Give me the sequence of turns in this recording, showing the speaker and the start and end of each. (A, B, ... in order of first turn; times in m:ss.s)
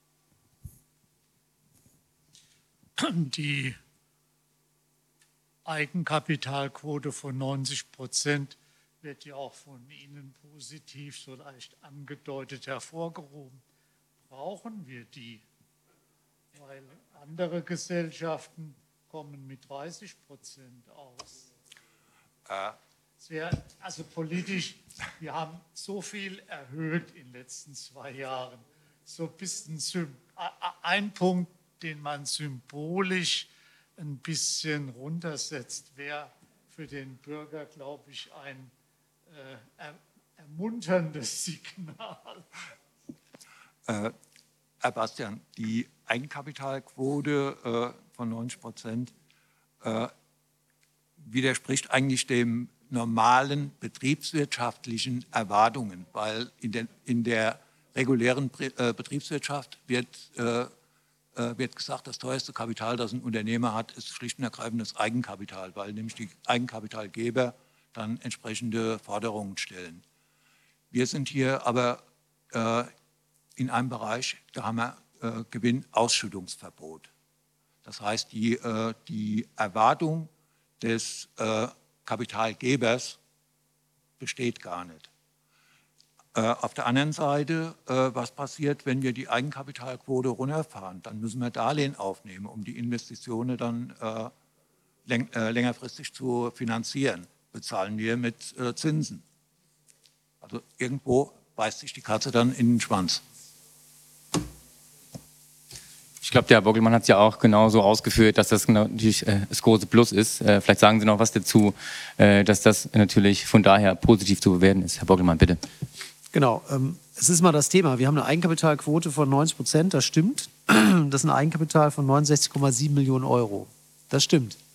0:03.0-0:03.8 A
0:05.7-0:13.6 A
0:14.3-0:15.4 A
0:16.5-0:21.5 A
0:22.5-0:22.8 B
0:23.2-0:38.7 A
0:39.3-0:42.5 A
0:43.9-0:44.2 B
0:44.8-0:49.1 B
0:49.8-0:50.1 B
0:51.2-1:00.7 B
1:01.4-1:10.0 B
1:10.9-1:12.9 B
1:13.6-1:17.1 B
1:17.8-1:23.2 B
1:24.2-1:25.1 B
1:26.3-1:34.3 B
1:35.1-1:39.2 B
1:40.4-1:43.2 B
1:46.2-1:55.6 C
1:56.3-2:04.6 D